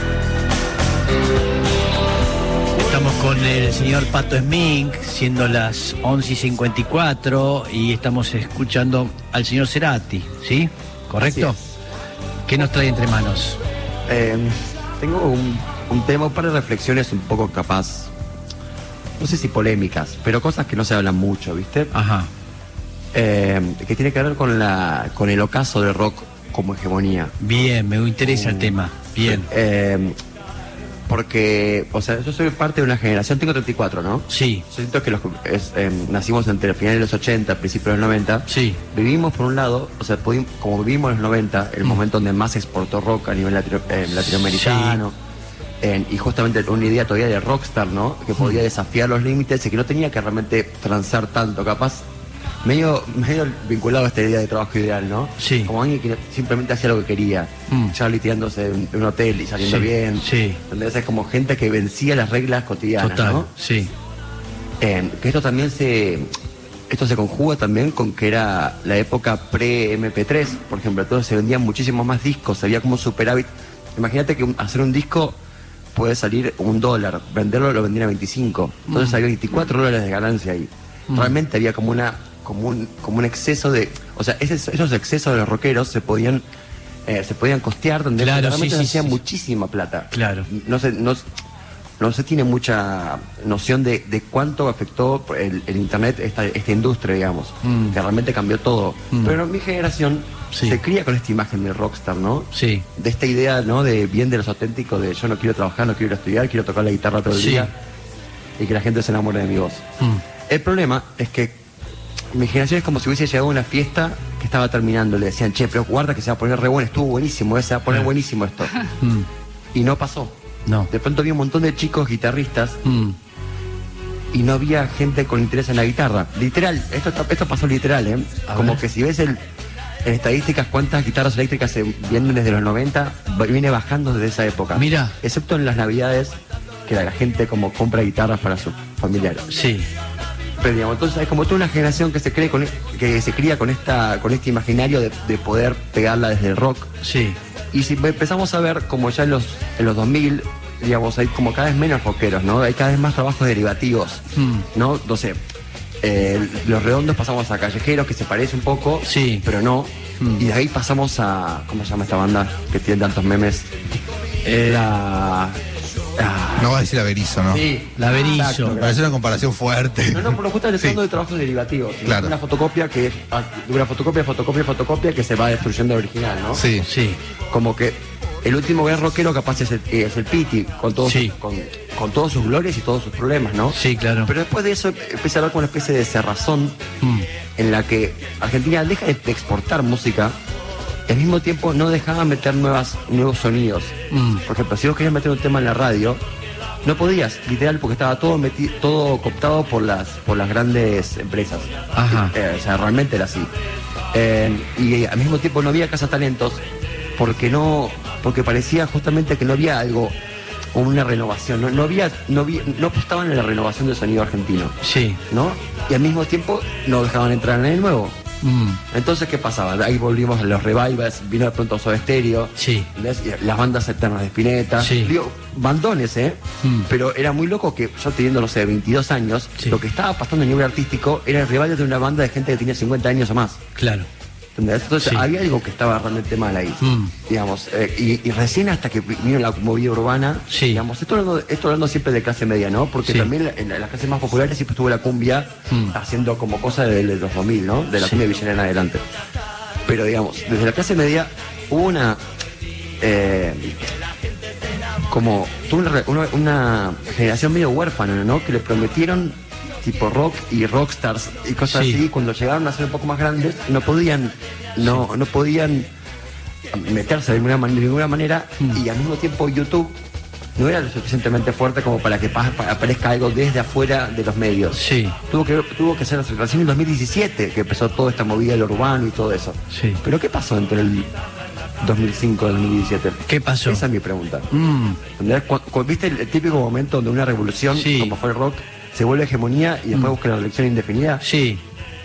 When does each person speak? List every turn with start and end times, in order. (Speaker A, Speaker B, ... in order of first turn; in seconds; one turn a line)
Speaker A: 2.8-11.6
Speaker B: 11.2-11.6
Speaker A: 12.5-13.6
Speaker B: 14.1-18.1
Speaker B: 19.2-21.9
Speaker A: 21.9-22.3
Speaker B: 23.1-27.3
Speaker A: 27.4-29.5
Speaker B: 28.2-30.2
Speaker B: 31.1-45.1
Speaker A: 34.3-34.6
Speaker A: 38.5-38.8
Speaker A: 44.2-45.0
Speaker B: 45.8-52.0
Speaker B: 52.6-63.5
Speaker A: 55.4-55.7
Speaker A: 59.6-60.6
Speaker A: 63.0-63.9
Speaker B: 64.8-66.3
Speaker B: 66.9-75.4
Speaker B: 75.9-86.4
Speaker A: 78.9-79.2
Speaker B: 87.0-91.2
Speaker A: 88.2-89.2
Speaker A: 90.1-90.5
Speaker B: 92.0-107.7
Speaker A: 97.6-98.0
Speaker A: 100.5-100.8
Speaker A: 102.5-102.8
Speaker A: 107.3-107.7
Speaker B: 108.6-109.8
Speaker B: 110.5-111.6
Speaker B: 112.3-118.8
Speaker A: 119.0-119.3
Speaker B: 119.7-120.3
Speaker B: 120.9-122.8
Speaker A: 122.8-123.2
Speaker B: 124.3-129.4
Speaker A: 128.5-128.8
Speaker B: 130.0-136.3
Speaker A: 134.7-135.2
Speaker B: 136.9-139.5
Speaker A: 139.5-139.9
Speaker B: 140.6-146.9
Speaker A: 147.0-147.4
Speaker B: 147.7-155.4
Speaker A: 154.3-154.7
Speaker B: 156.0-163.7
Speaker A: 159.0-159.4
Speaker A: 160.2-160.4
Speaker B: 164.4-165.6
Speaker A: 164.5-164.9
Speaker B: 166.2-166.8
Speaker C: 166.6-167.7
Speaker B: 167.5-169.1
Speaker A: 167.5-168.8
Speaker C: 168.4-171.0
Speaker B: 170.1-176.6
Speaker C: 172.1-172.3
Speaker C: 176.5-176.9
Speaker A: 176.8-177.2
Speaker B: 177.5-186.8
Speaker A: 181.0-181.3
Speaker A: 183.7-184.3
Speaker A: 187.0-187.2
Speaker B: 187.6-190.3
Speaker B: 191.1-196.2
Speaker A: 194.1-194.4
Speaker B: 196.8-203.5
Speaker A: 201.9-202.3
Speaker B: 204.1-206.6
Speaker B: 207.2-210.1
Speaker B: 210.7-214.7
Speaker A: 214.8-215.2
Speaker B: 215.3-218.2
Speaker A: 218.4-218.8
Speaker B: 218.9-233.6
Speaker A: 222.6-222.9
Speaker A: 224.8-225.1
Speaker A: 226.6-226.9
Speaker A: 233.8-234.1
Speaker B: 234.5-249.0
Speaker A: 236.8-237.1
Speaker A: 240.5-240.8
Speaker A: 243.0-243.3
Speaker A: 245.7-245.9
Speaker B: 249.9-252.2
Speaker B: 253.0-253.8
Speaker B: 255.1-265.9
Speaker A: 261.7-262.0
Speaker B: 266.7-269.9
Speaker B: 270.6-281.1
Speaker A: 274.7-275.1
Speaker A: 279.7-280.0
Speaker B: 281.8-284.5
Speaker A: 283.3-283.8
Speaker A: 284.5-285.0
Speaker B: 285.1-291.2
Speaker A: 287.7-288.1
Speaker A: 291.2-291.6